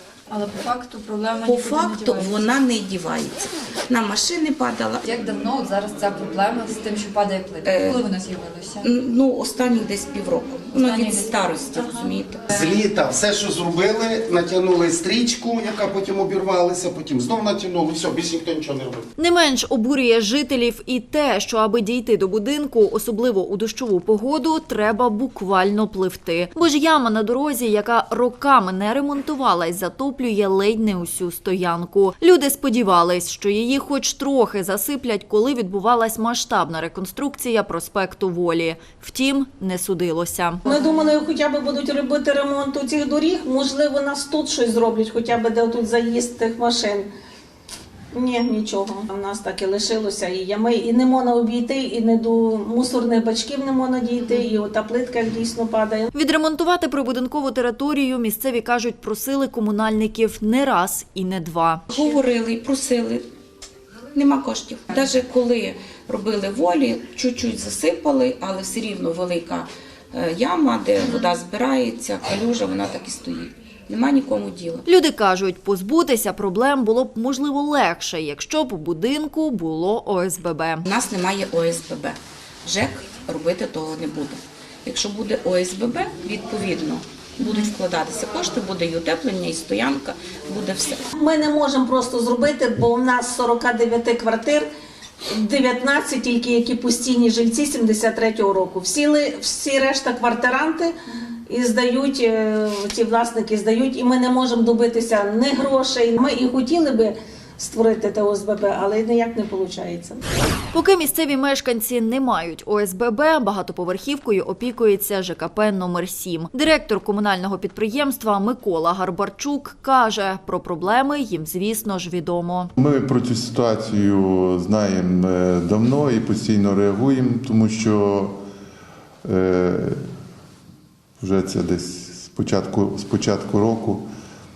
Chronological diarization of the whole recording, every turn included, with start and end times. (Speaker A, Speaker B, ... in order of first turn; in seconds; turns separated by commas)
Speaker A: 0.3-2.4, Speaker B: 1.4-5.1, Speaker A: 5.1-8.8, Speaker B: 7.6-8.0, Speaker B: 8.8-12.5, Speaker A: 10.8-11.3, Speaker C: 12.5-19.1, Speaker A: 19.2-40.6, Speaker D: 40.7-47.1, Speaker D: 48.1-56.1, Speaker A: 56.1-61.8, Speaker B: 61.9-63.3, Speaker B: 64.1-74.8, Speaker A: 74.9-80.9, Speaker B: 80.9-91.1, Speaker D: 91.2-94.7, Speaker D: 95.3-100.9, Speaker D: 101.5-110.2, Speaker A: 110.7-122.7, Speaker E: 122.8-128.4, Speaker E: 129.2-130.0, Speaker E: 131.2-134.1